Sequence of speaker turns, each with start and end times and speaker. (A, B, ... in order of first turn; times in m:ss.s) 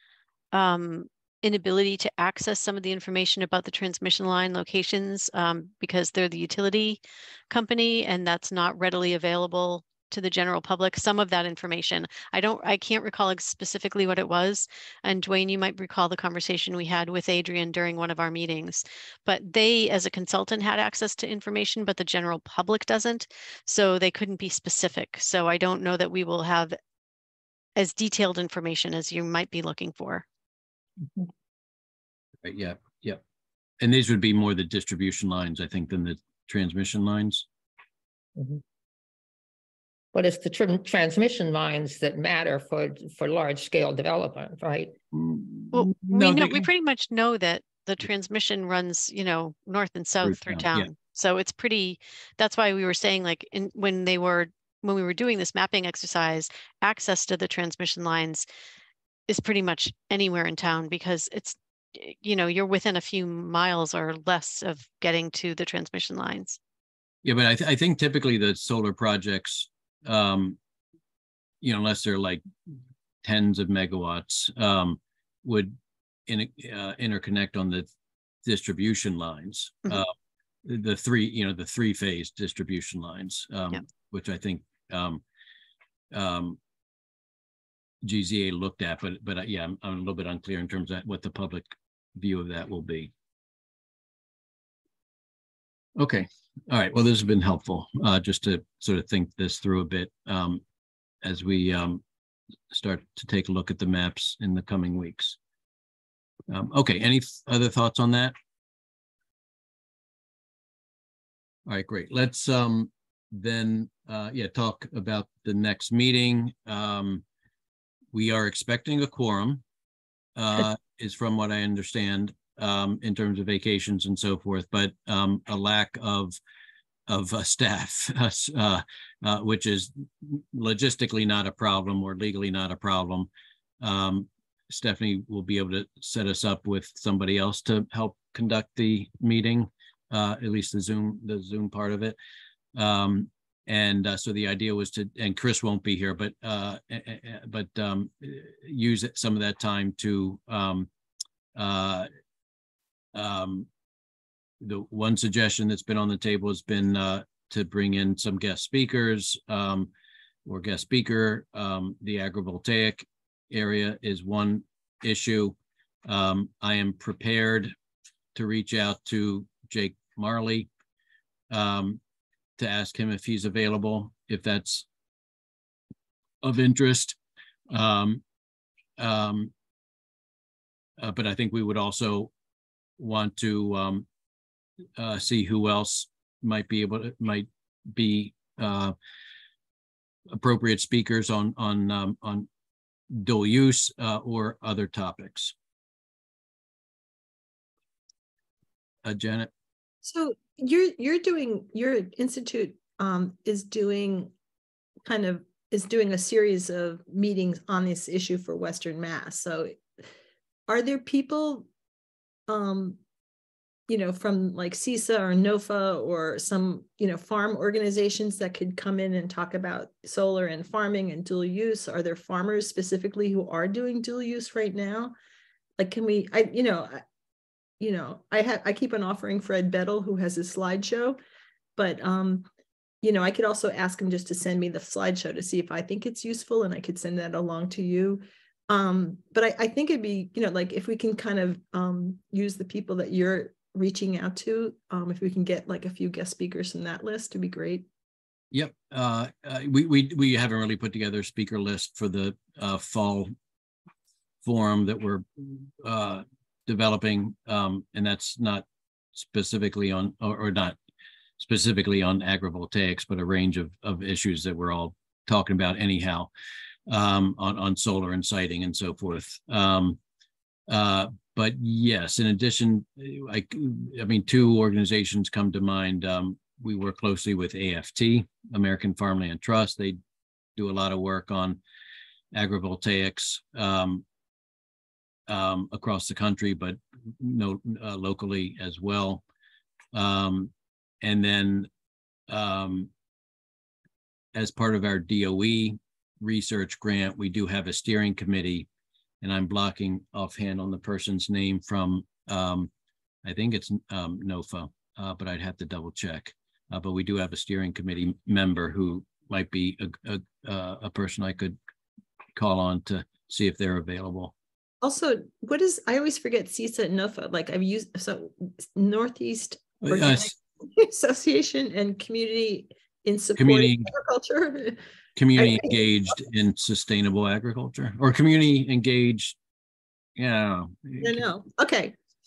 0:00.5-0:26.8 A
0:27.8-0:30.2 A
0:32.4-0:33.2 B
0:33.8-0:37.5 B
0:38.4-0:38.6 C
0:40.1-0:45.0 C
0:45.1-0:46.7 B
0:45.7-0:58.5 A
0:50.2-0:50.9 B
0:59.3-1:06.6 A
1:07.2-1:10.6 B
1:11.6-1:12.4 B
1:13.2-1:15.8 B
1:16.3-1:17.9 B
1:18.4-1:20.1 B
1:20.6-1:25.2 B
1:26.1-1:26.6 B
1:28.0-1:33.1 B
1:36.0-1:40.6 B
1:41.2-1:42.0 B
1:42.7-1:45.4 B
1:46.5-1:48.4 B
1:51.7-1:57.2 B
1:58.1-1:59.6 B
2:00.4-2:06.4 B
2:07.1-2:13.3 B
2:13.8-2:22.2 B
2:22.8-2:30.9 B
2:31.6-2:32.1 B
2:33.1-2:33.7 B
2:34.6-2:39.9 B
2:40.5-2:45.6 B
2:46.1-2:47.7 B
2:48.4-2:50.7 B
2:51.5-2:52.0 B
2:52.6-2:54.9 B
2:56.4-2:57.2 B
2:57.7-2:58.2 B
2:59.0-2:59.5 B
3:01.0-3:02.3 B
3:03.0-3:04.0 B
3:05.0-3:09.0 B
3:10.3-3:12.5 B
3:13.1-3:15.5 B
3:19.0-3:19.5 B
3:20.0-3:24.3 D
3:25.1-3:29.8 D
3:30.7-3:31.7 D
3:32.5-3:33.0 D
3:33.9-3:45.1 D
3:45.8-3:47.0 D
3:47.8-3:51.2 D
3:51.8-3:52.5 D
3:53.0-4:07.9 D
4:08.5-4:13.3 B
4:14.4-4:20.8 B
4:21.4-4:26.3 B
4:26.9-4:30.0 B
4:30.7-4:40.0 B
4:40.6-4:41.6 B
4:42.3-4:44.0 B
4:45.3-4:49.2 B
4:49.9-4:50.5 B
4:51.0-4:51.7 B
4:52.3-4:52.9 B
4:54.3-4:58.7 B
4:59.2-5:02.7 B
5:03.2-5:11.6 B
5:12.4-5:14.3 B
5:14.8-5:24.8 D
5:19.8-5:20.4 B
5:23.4-5:23.9 B
5:25.2-5:29.4 B
5:25.4-5:25.8 D
5:30.2-5:31.2 B
5:31.0-5:32.0 D